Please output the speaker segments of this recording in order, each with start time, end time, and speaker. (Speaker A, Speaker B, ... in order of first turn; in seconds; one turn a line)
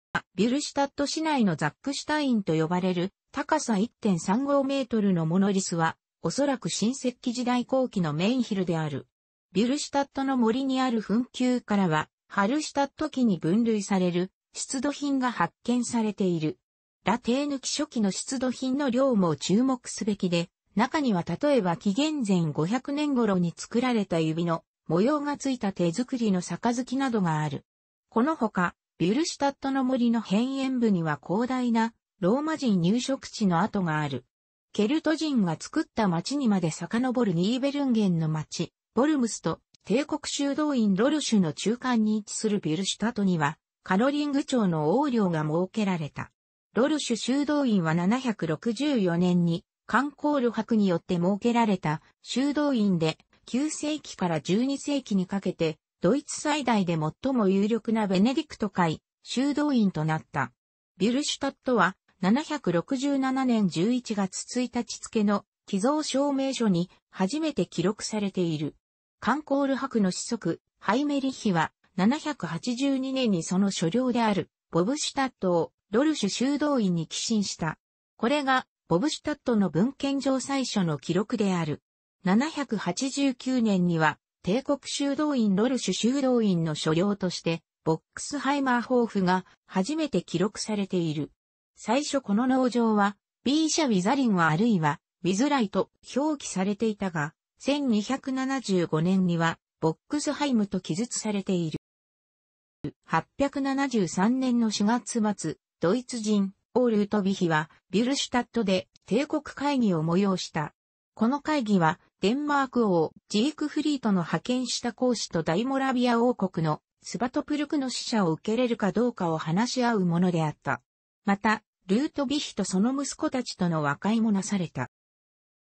Speaker A: 0.3-101.8
Speaker A: 103.0-124.9